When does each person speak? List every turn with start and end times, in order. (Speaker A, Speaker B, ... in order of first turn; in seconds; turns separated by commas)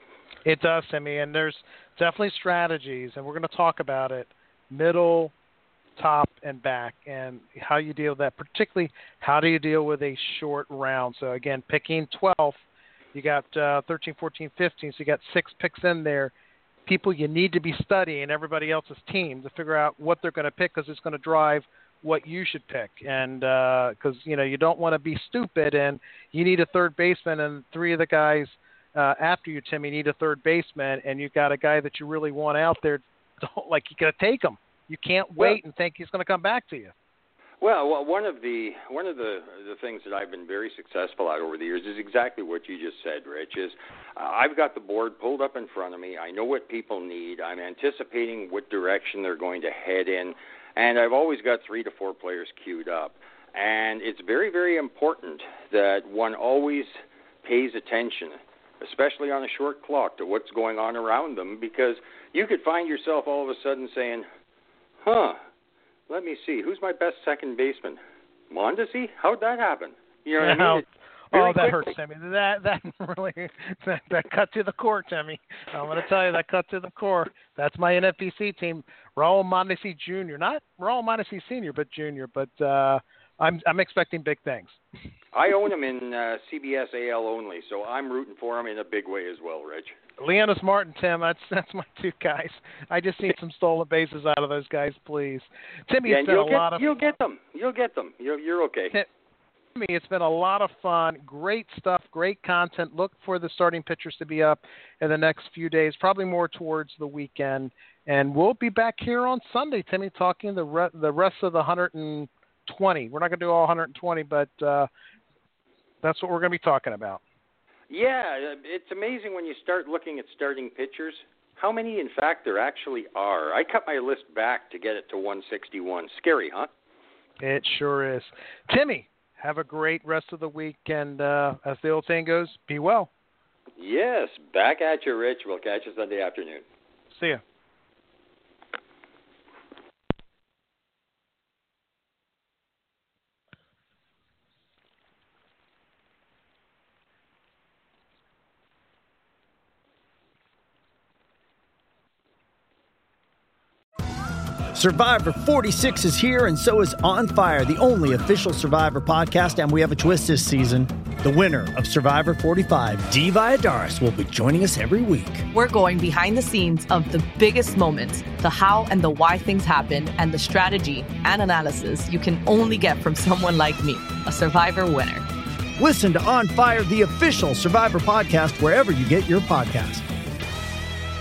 Speaker A: 0.5-5.3, Speaker A: 6.0-12.6, Speaker A: 13.1-16.3, Speaker A: 16.9-36.9, Speaker B: 37.6-56.9, Speaker B: 57.4-64.3, Speaker B: 65.0-65.4, Speaker B: 66.1-68.0, Speaker B: 68.5-71.9, Speaker A: 70.4-84.8, Speaker B: 85.3-89.9, Speaker A: 90.2-97.0, Speaker B: 96.1-99.0, Speaker A: 99.8-114.9, Speaker A: 116.0-117.2, Speaker B: 117.9-126.7, Speaker A: 127.4-133.1, Speaker B: 133.8-136.6, Speaker A: 137.1-137.4, Speaker C: 154.7-165.5, Speaker D: 165.5-175.3, Speaker C: 175.8-180.1